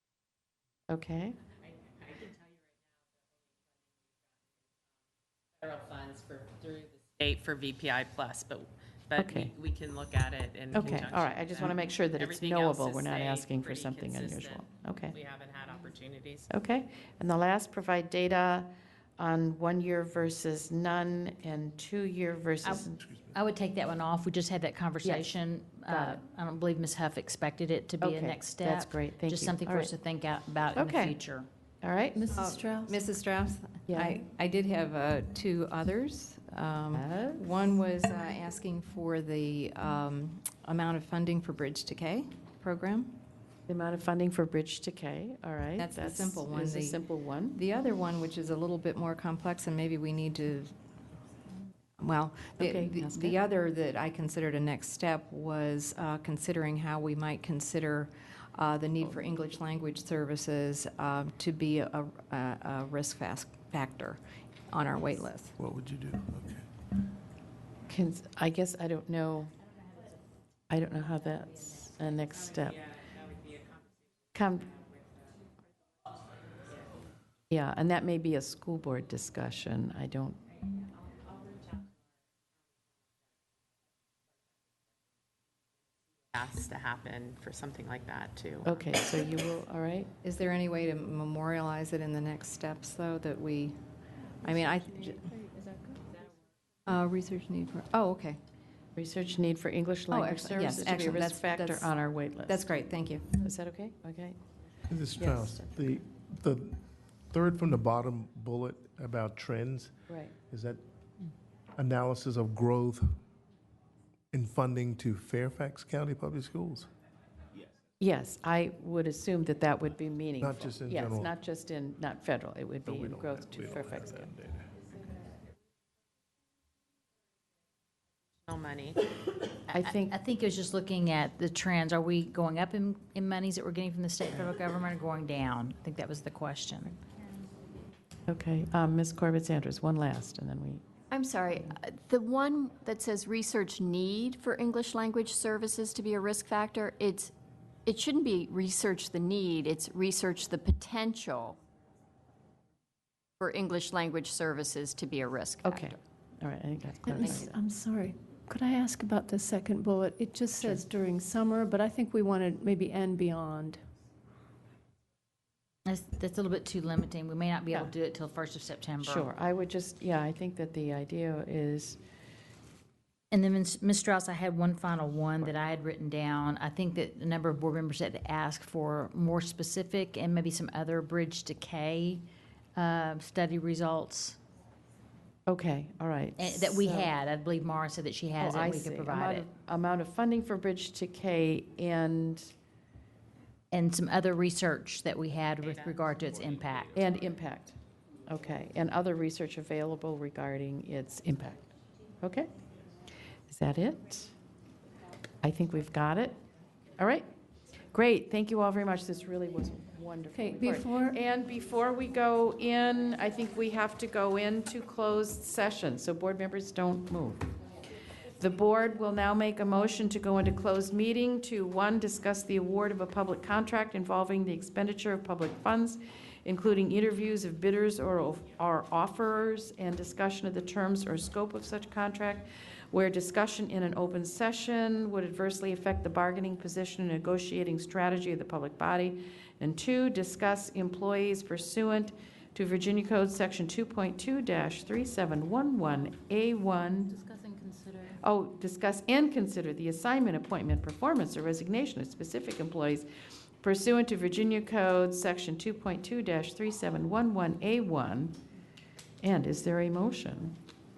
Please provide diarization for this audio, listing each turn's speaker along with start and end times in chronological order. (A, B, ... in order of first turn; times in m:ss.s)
0:00.9-0:01.4 A
0:02.0-0:02.6 B
0:05.6-0:16.5 B
0:09.2-0:09.5 A
0:10.7-0:15.2 A
0:16.5-0:23.0 A
0:22.6-0:31.5 C
0:25.0-0:25.3 A
0:25.9-0:26.2 A
0:28.0-0:29.9 A
0:30.8-0:31.2 A
0:31.8-0:32.4 A
0:32.2-0:33.0 D
0:32.3-0:43.2 E
0:33.9-0:34.2 A
0:36.9-0:37.5 A
0:43.7-0:47.6 A
0:45.8-0:50.7 E
0:52.0-1:05.6 E
0:52.6-0:53.4 A
1:05.6-1:06.7 F
1:07.9-1:09.5 A
1:10.7-1:12.8 A
1:12.6-1:14.0 B
1:14.3-1:14.7 A
1:14.7-1:15.2 B
1:17.5-1:20.4 A
1:26.3-1:29.0 B
1:28.6-1:30.1 A
1:30.2-1:33.8 E
1:34.4-1:35.3 E
1:35.4-1:36.0 D
1:36.9-1:38.4 E
1:39.0-1:42.7 A
1:40.1-1:41.9 E
1:42.5-1:43.3 E
1:43.4-1:44.4 A
1:44.9-1:49.9 F
1:45.2-1:45.7 A
1:50.1-1:50.4 A
1:50.5-1:50.8 F
1:51.8-1:53.1 F
1:54.3-1:56.9 F
1:58.0-2:04.3 A
2:00.4-2:01.3 F
2:02.8-2:04.7 F
2:08.5-2:09.0 B
2:09.7-2:10.2 A
2:09.9-2:17.0 C
2:18.3-2:20.8 A
2:21.1-2:27.3 G
2:27.9-2:31.6 G
2:33.4-2:35.9 G
2:35.6-2:37.6 A
2:37.0-2:43.8 D
2:40.6-2:40.8 A
2:45.9-2:49.3 C
2:49.0-2:52.0 A
2:53.3-3:02.2 C
3:02.8-3:04.4 C
3:05.5-3:07.1 A
3:06.4-3:09.5 C
3:08.4-3:12.5 A
3:13.7-3:17.0 C
3:15.6-3:17.1 B
3:17.0-3:17.8 A
3:18.3-3:21.7 A
3:22.2-3:22.5 A
3:23.5-3:24.3 A
3:25.4-3:26.4 A
3:27.0-3:27.3 A
3:27.9-3:37.5 A
3:30.3-3:31.2 D
3:38.4-4:07.2 A
4:08.2-4:13.1 A
4:13.6-4:18.4 A
4:19.2-4:20.6 A